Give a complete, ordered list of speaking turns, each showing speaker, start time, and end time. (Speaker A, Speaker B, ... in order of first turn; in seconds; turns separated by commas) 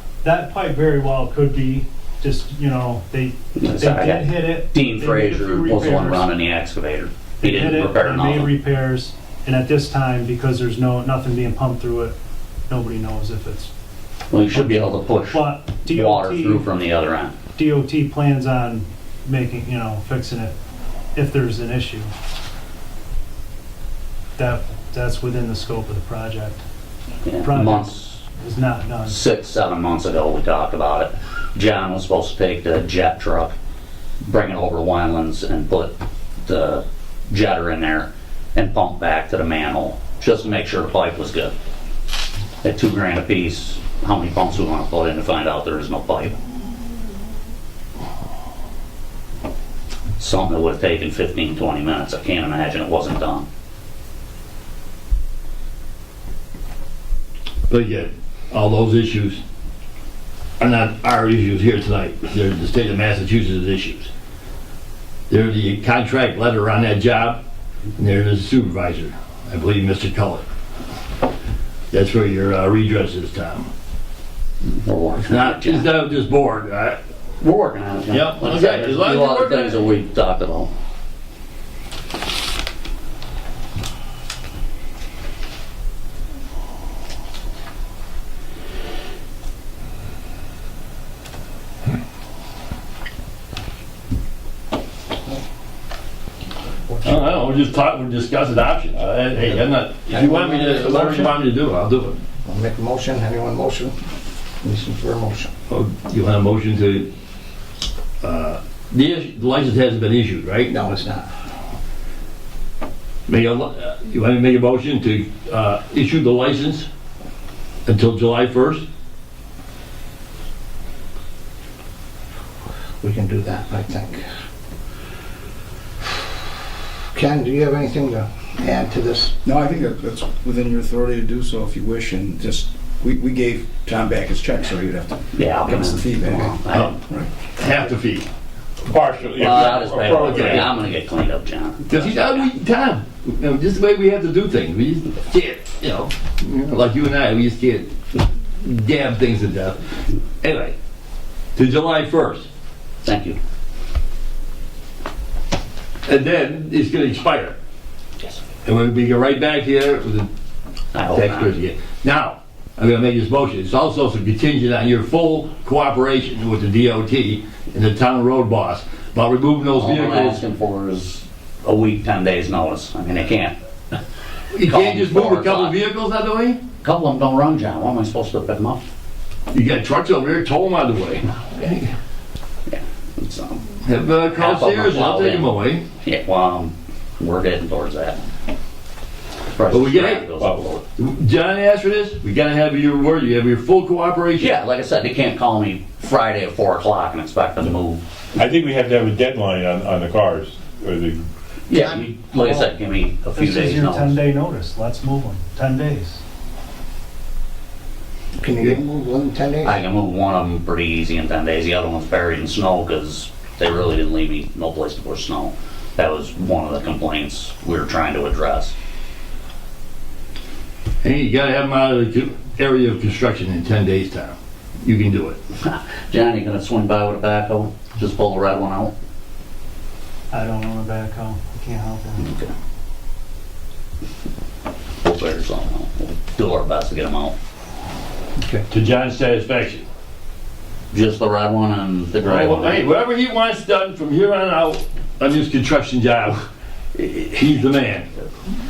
Speaker A: 0.2-6.3, Speaker B: 3.5-8.5, Speaker A: 7.4-12.1, Speaker A: 12.7-13.7, Speaker B: 14.3-17.4, Speaker A: 14.5-16.7, Speaker A: 17.5-20.5, Speaker A: 21.1-22.1, Speaker A: 24.4-26.6, Speaker B: 27.2-28.2, Speaker A: 27.4-29.2, Speaker B: 29.1-33.5, Speaker B: 34.2-41.5, Speaker B: 42.6-46.3, Speaker B: 50.2-53.5, Speaker C: 57.7-59.4, Speaker C: 60.6-64.1, Speaker C: 65.3-67.4, Speaker C: 68.0-70.4, Speaker C: 71.9-73.7, Speaker B: 74.6-75.9, Speaker C: 75.2-77.0, Speaker B: 77.4-80.7, Speaker C: 78.1-79.8, Speaker C: 97.0-102.2, Speaker D: 100.1-101.4, Speaker D: 102.4-104.0, Speaker D: 104.6-105.5, Speaker C: 105.7-107.1, Speaker C: 108.2-110.7, Speaker D: 110.7-111.3, Speaker C: 113.3-116.9, Speaker C: 117.8-118.8, Speaker D: 123.0-124.2, Speaker D: 127.1-129.3, Speaker E: 129.4-137.3, Speaker B: 135.3-137.0, Speaker C: 137.5-138.3, Speaker F: 138.8-140.7, Speaker B: 139.4-142.5, Speaker C: 139.5-140.7, Speaker C: 141.9-147.9, Speaker C: 148.6-149.8, Speaker C: 150.4-150.7, Speaker C: 151.5-152.5, Speaker B: 153.0-153.4, Speaker C: 156.1-157.6, Speaker C: 158.6-160.3, Speaker B: 160.9-161.5, Speaker C: 161.1-170.4, Speaker B: 169.8-173.5, Speaker C: 174.5-176.6, Speaker B: 174.6-175.8, Speaker B: 176.8-178.8, Speaker C: 179.5-181.9, Speaker B: 182.7-183.6, Speaker C: 183.8-185.8, Speaker B: 184.3-185.5, Speaker B: 186.0-188.2, Speaker B: 189.5-190.8, Speaker C: 189.7-190.3, Speaker C: 191.0-194.5, Speaker B: 194.4-198.0, Speaker F: 198.3-201.2, Speaker B: 201.7-204.2, Speaker A: 202.3-202.7, Speaker A: 203.3-206.2, Speaker D: 208.4-209.8, Speaker B: 209.6-218.7, Speaker C: 221.0-225.4, Speaker B: 225.6-228.9, Speaker A: 230.3-232.3, Speaker B: 232.2-232.5, Speaker B: 235.0-237.3, Speaker D: 238.4-238.6, Speaker C: 238.7-239.8, Speaker B: 240.9-242.8, Speaker C: 242.2-248.1